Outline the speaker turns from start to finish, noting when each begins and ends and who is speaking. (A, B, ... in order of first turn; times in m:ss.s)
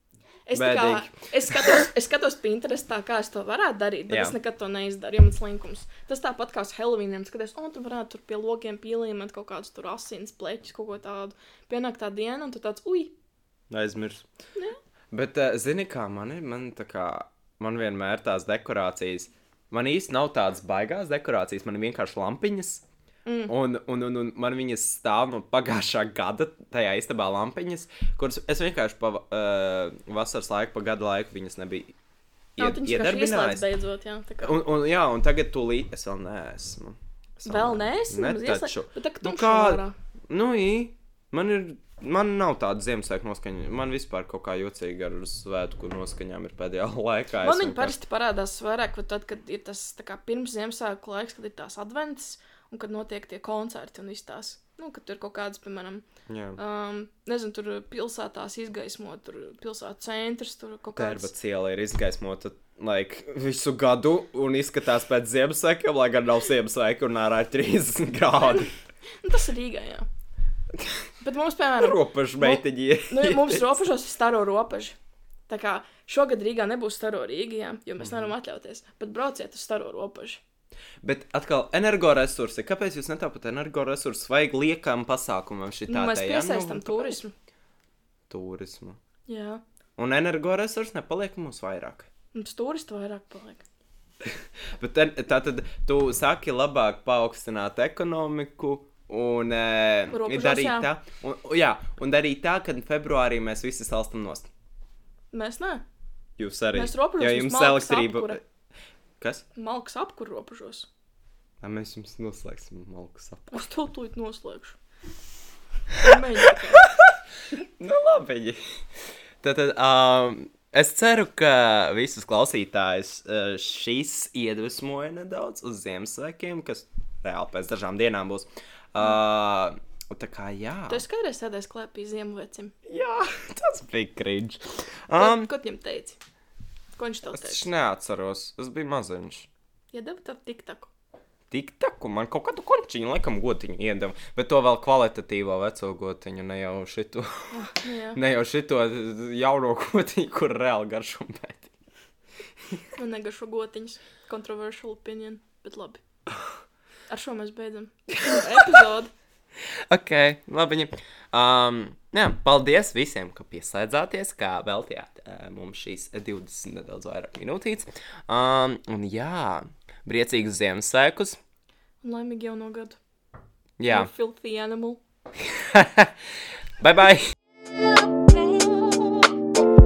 0:00.5-0:13.1 A
0:00.6-0:01.8 B
0:04.1-0:04.4 B
0:13.7-0:14.3 B
0:15.1-0:22.8 B
0:23.3-0:23.5 A
0:23.5-0:32.0 B
0:32.6-0:33.7 B
0:32.6-0:34.6 A
0:34.4-0:48.0 B
0:37.4-0:40.0 A
0:47.4-1:01.3 A
0:56.3-0:56.6 B
1:01.0-1:08.7 B
1:08.4-1:08.7 A
1:09.2-1:10.1 A
1:11.2-1:15.0 A
1:11.8-1:13.8 B
1:15.5-1:20.4 A
1:18.0-1:18.3 B
1:21.0-1:27.2 B
1:25.9-1:27.3 A
1:28.3-1:29.0 B
1:29.3-1:29.6 A
1:30.0-1:32.1 B
1:32.3-1:33.6 A
1:34.2-1:44.5 B
1:40.1-1:40.9 A
1:45.3-1:45.8 A
1:46.4-1:48.4 B
1:46.7-1:48.4 A
1:49.2-1:49.5 B
1:49.6-1:50.9 A
1:51.6-1:53.7 B
1:53.5-1:54.8 A
1:55.9-1:56.9 A
1:56.8-1:58.6 B
1:59.4-2:11.0 B
2:10.9-2:12.7 A
2:12.9-2:15.5 B
2:15.2-2:16.2 A
2:17.0-2:17.7 A
2:17.3-2:19.5 B
2:19.9-2:20.9 A
2:21.5-2:27.5 B
2:27.5-2:28.2 A
2:28.2-2:31.7 B
2:33.0-2:36.0 A
2:37.1-2:39.1 A
2:38.3-2:38.8 B
2:39.6-2:51.4 B
2:52.0-2:53.0 A
2:53.8-2:54.1 B
2:53.9-2:55.0 A
2:55.4-2:56.2 B
2:56.8-2:57.3 B
2:58.6-2:59.0 A